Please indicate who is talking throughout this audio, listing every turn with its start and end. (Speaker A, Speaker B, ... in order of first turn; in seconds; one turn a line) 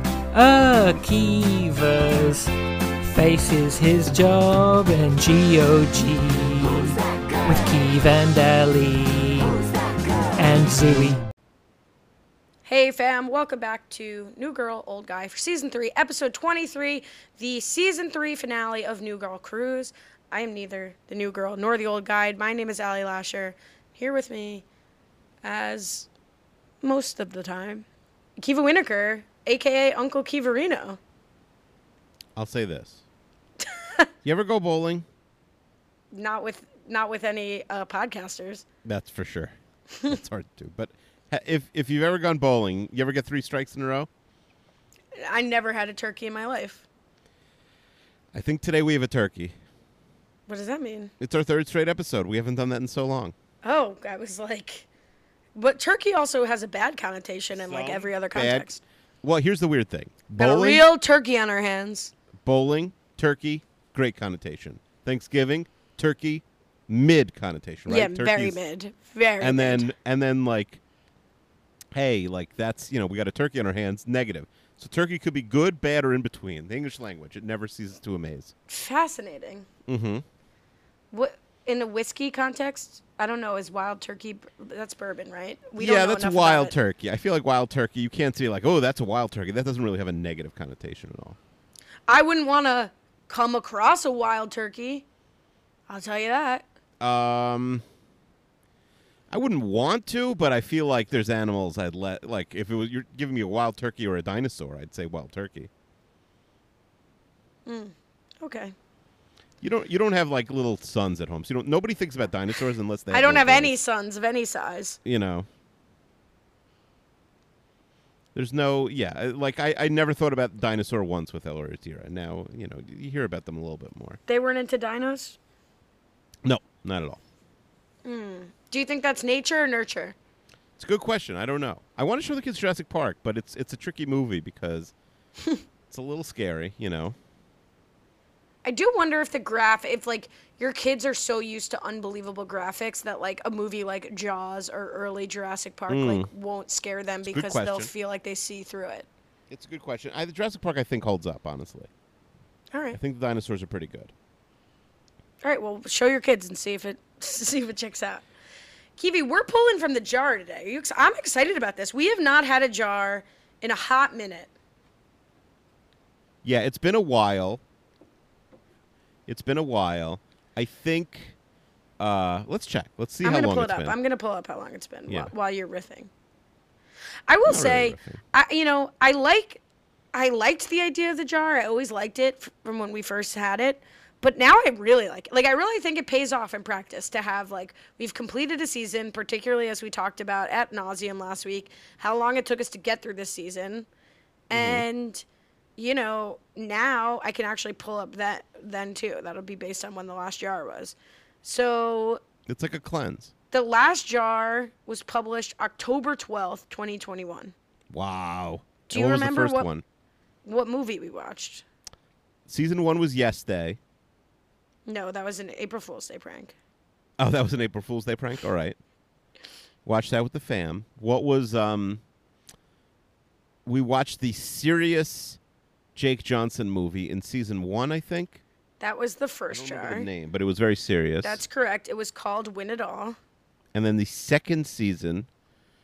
Speaker A: 0.3-2.5
Speaker A: 3.0-9.6
Speaker A: 10.4-11.2
Speaker B: 12.7-24.6
Speaker B: 25.4-26.1
Speaker B: 26.8-27.9
Speaker B: 28.4-31.0
Speaker C: 32.4-33.0
Speaker B: 33.6-34.1
Speaker C: 34.2-35.0
Speaker B: 36.1-38.6
Speaker C: 38.9-44.1
Speaker B: 45.1-46.9
Speaker C: 48.3-49.5
Speaker B: 50.5-51.1
Speaker C: 51.2-53.3
Speaker B: 53.6-54.9
Speaker B: 55.5-58.8
Speaker C: 57.5-58.7
Speaker C: 59.2-60.9
Speaker B: 60.4-62.1
Speaker C: 62.4-68.6
Speaker B: 67.9-69.9
Speaker C: 69.4-70.8
Speaker C: 71.9-78.5
Speaker B: 78.7-79.7
Speaker C: 79.9-80.2
Speaker B: 81.1-86.7
Speaker C: 85.8-91.4
Speaker B: 92.1-95.1
Speaker B: 95.9-96.7
Speaker C: 97.0-97.8
Speaker C: 99.3-105.7
Speaker B: 107.7-108.7
Speaker C: 109.6-113.7
Speaker B: 113.1-115.0
Speaker C: 115.0-115.5
Speaker C: 118.3-124.2
Speaker B: 124.3-125.4
Speaker C: 126.4-127.2
Speaker B: 128.1-130.2
Speaker C: 130.8-134.9
Speaker C: 135.9-137.2
Speaker B: 138.6-149.1
Speaker C: 145.9-146.3
Speaker C: 147.3-147.9
Speaker C: 149.5-151.9
Speaker B: 152.7-153.0
Speaker C: 152.9-154.1
Speaker B: 155.4-158.3
Speaker B: 159.0-164.5
Speaker C: 166.4-167.6
Speaker C: 169.3-171.4
Speaker C: 172.0-174.0
Speaker B: 173.2-176.1
Speaker B: 177.3-179.6
Speaker C: 177.5-178.2
Speaker B: 180.1-193.9
Speaker B: 194.5-195.2
Speaker C: 194.5-194.8
Speaker B: 195.8-202.2
Speaker C: 202.5-203.3
Speaker B: 203.5-207.6
Speaker C: 207.9-209.8
Speaker B: 208.9-209.7
Speaker B: 210.4-211.6
Speaker C: 212.5-213.8
Speaker B: 214.9-216.5
Speaker C: 217.2-218.8
Speaker C: 219.8-222.0
Speaker C: 223.7-225.4
Speaker C: 226.0-228.4
Speaker B: 228.8-230.1
Speaker C: 229.5-231.4
Speaker B: 231.2-233.2
Speaker C: 233.7-235.3